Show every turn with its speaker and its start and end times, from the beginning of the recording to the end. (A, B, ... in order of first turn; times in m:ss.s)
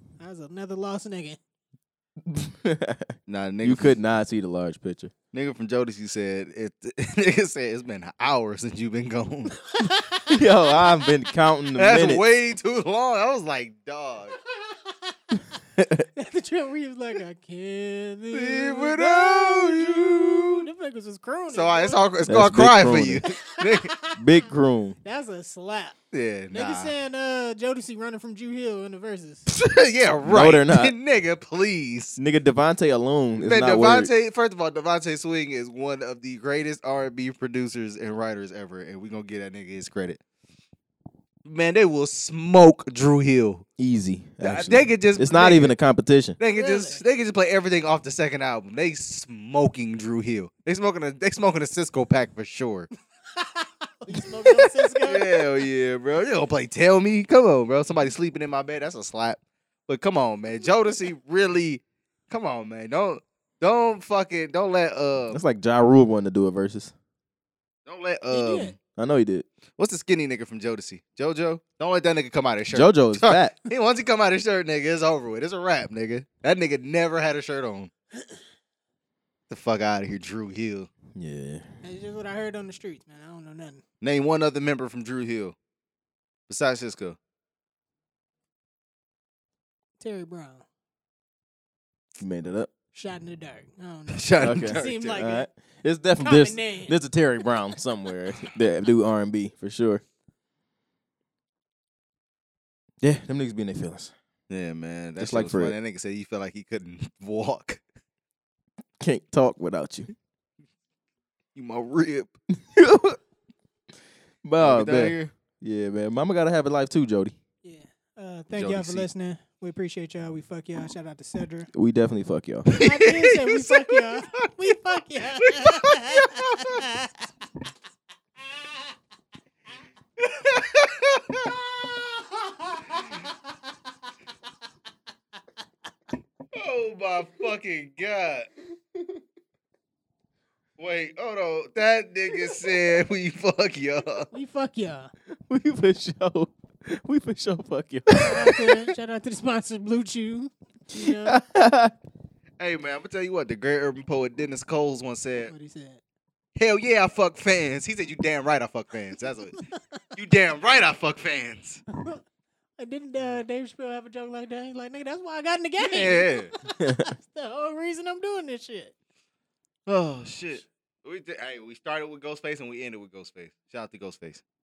0:00.2-0:01.4 A
0:02.2-0:05.1 B
0:03.3-0:03.9 C
0:05.3-0:09.5 C
0:09.7-0:10.9 A
0:10.3-0:12.2 B
0:11.8-0:14.4 C
0:14.7-0:15.4 A
0:15.8-0:16.1 B
0:16.2-0:22.1 A
0:18.3-0:20.7 C
0:21.5-0:23.9 C
0:22.2-0:23.2 B
0:23.2-0:24.4 A
0:24.1-0:25.0 B
0:25.0-0:26.0 A
0:26.1-0:26.9 C
0:26.5-0:29.4 A
0:29.5-0:32.2 C
0:30.2-0:30.9 B
0:32.2-0:34.1 B
0:33.4-0:40.2 C
0:41.4-0:43.6 C
0:43.8-0:46.4 B
0:44.4-0:45.7 C
0:46.4-0:52.9 C
0:46.5-0:47.0 A
0:53.3-0:55.5 A
0:54.2-1:05.4 C
1:05.3-1:06.9 B
1:07.8-1:08.7 C
1:08.3-1:08.7 A
1:09.0-1:09.4 B
1:09.8-1:17.9 C
1:12.7-1:13.5 B
1:19.5-1:20.9 C
1:21.1-1:21.7 B
1:21.8-1:23.8 A
1:24.0-1:25.5 C
1:26.5-1:27.2 C
1:30.0-1:30.6 A
1:32.2-1:32.7 B
1:32.9-1:35.4 A
1:34.1-1:35.2 C
1:34.4-1:40.0 B
1:36.2-1:37.0 A
1:43.0-1:44.1 B
1:44.5-1:47.8 C
1:45.2-1:45.8 B
1:49.0-1:50.1 B
1:51.5-1:52.3 C
1:52.5-1:53.2 B
1:54.4-1:57.4 B
1:54.6-1:55.3 C
1:57.6-2:01.7 A
1:58.5-1:59.1 C
2:01.7-2:02.7 B
2:02.7-2:04.5 C
2:02.8-2:07.1 A
2:05.4-2:06.8 C
2:10.2-2:11.6 C
2:16.5-2:18.5 C
2:20.8-2:24.3 C
2:24.3-2:25.1 A
2:25.5-2:28.9 B
2:28.1-2:31.4 A
2:30.9-2:31.9 B
2:32.6-2:35.5 C
2:35.4-2:36.0 A
2:36.6-2:39.6 C
2:40.1-2:41.8 C
2:42.0-2:42.2 A
2:42.8-2:48.9 A
2:45.8-2:46.5 C
2:46.8-2:47.1 B
2:49.9-2:54.4 C